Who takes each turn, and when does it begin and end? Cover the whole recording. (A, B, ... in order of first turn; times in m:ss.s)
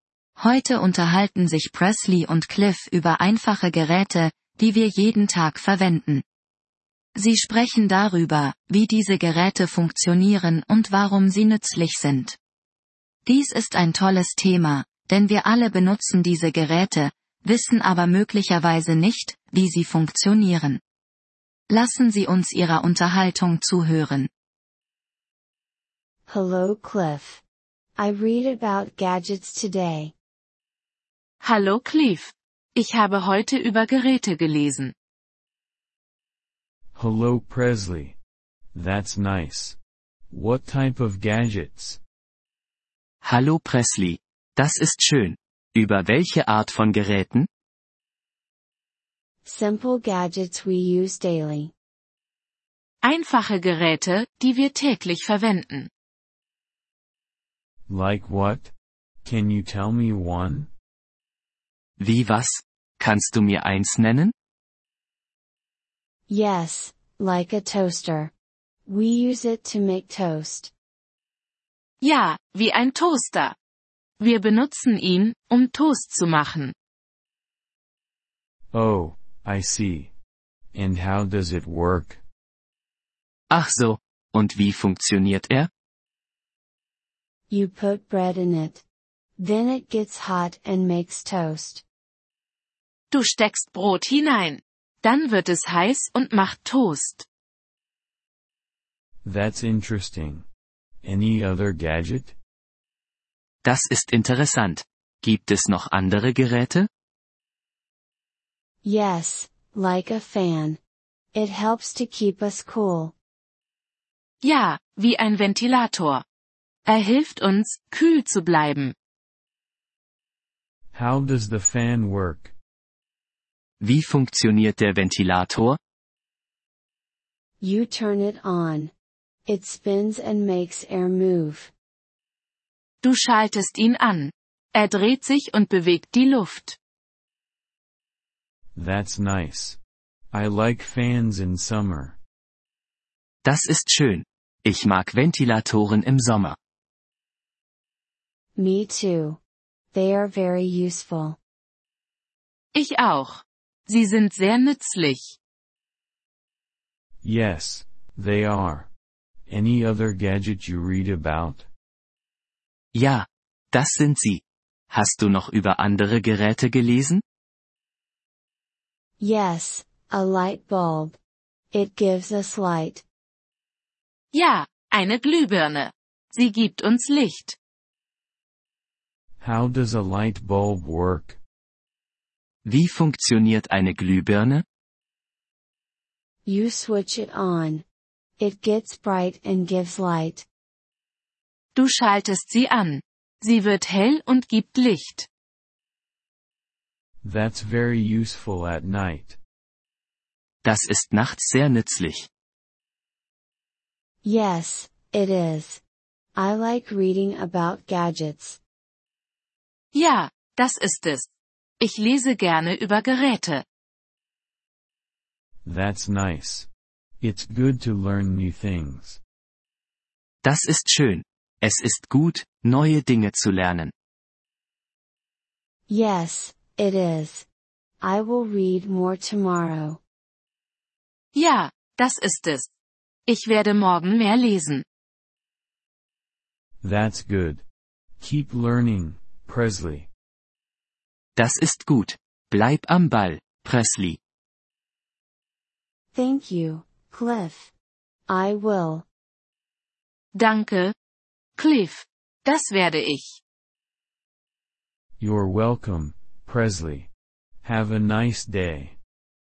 0:00.4-0:06.2 A
0:07.2-0:12.4 A
0:13.2-0:20.8 A
0:21.7-0:24.3 A
0:26.3-0:27.4 B
0:28.0-0:30.1 B
0:31.4-0:34.9 C
0:36.9-0:38.2 D
0:38.7-0:39.8 D
0:40.3-0:42.0 D
0:43.2-0:47.5 E
0:49.4-0:51.7 B
0:53.0-0:55.9 C
0:57.9-0:58.7 D
0:59.2-1:00.7 D
1:02.0-1:04.3 E
1:06.3-1:08.3 B
1:08.8-1:10.7 B
1:12.0-1:13.5 C
1:14.2-1:16.7 C
1:18.7-1:20.1 D
1:20.7-1:22.2 D
1:23.5-1:25.7 E
1:27.5-1:28.8 B
1:29.4-1:31.8 B
1:33.1-1:37.2 C
1:39.2-1:40.4 D
1:41.0-1:42.4 D
1:43.6-1:46.9 E
1:48.8-1:50.8 B
1:51.3-1:53.1 B
1:54.4-1:56.2 C
1:56.9-1:58.9 C
2:00.9-2:02.5 D
2:03.8-2:05.8 E
2:07.6-2:08.9 B
2:09.4-2:11.7 B
2:13.0-2:16.8 C
2:18.7-2:19.8 D
2:20.3-2:22.2 D
2:23.4-2:26.6 E
2:28.6-2:29.4 B
2:29.9-2:31.4 B
2:32.7-2:35.2 C
2:37.2-2:38.9 D
2:39.5-2:41.7 D
2:42.9-2:47.2 E
2:49.2-2:51.2 B
2:51.7-2:53.0 B
2:54.3-2:57.6 C
2:59.4-3:01.4 D
3:02.6-3:04.6 E
3:06.4-3:07.8 B
3:08.4-3:10.4 B
3:11.8-3:15.3 C
3:17.2-3:19.4 D
3:20.6-3:22.3 E
3:24.2-3:25.8 B
3:26.3-3:28.6 B
3:29.9-3:31.3 C
3:31.8-3:33.6 C
3:35.6-3:36.7 D
3:37.2-3:39.2 D
3:40.4-3:43.9 E
3:45.9-3:47.4 B
3:48.0-3:50.0 B
3:51.3-3:52.7 C
3:53.3-3:54.8 C
3:56.8-3:57.6 D
3:58.2-4:00.1 D
4:01.4-4:04.2 E
4:06.1-4:07.7 B
4:08.3-4:09.0 B
4:10.4-4:10.9 C
4:11.6-4:13.2 C
4:15.2-4:17.1 D
4:17.6-4:19.0 D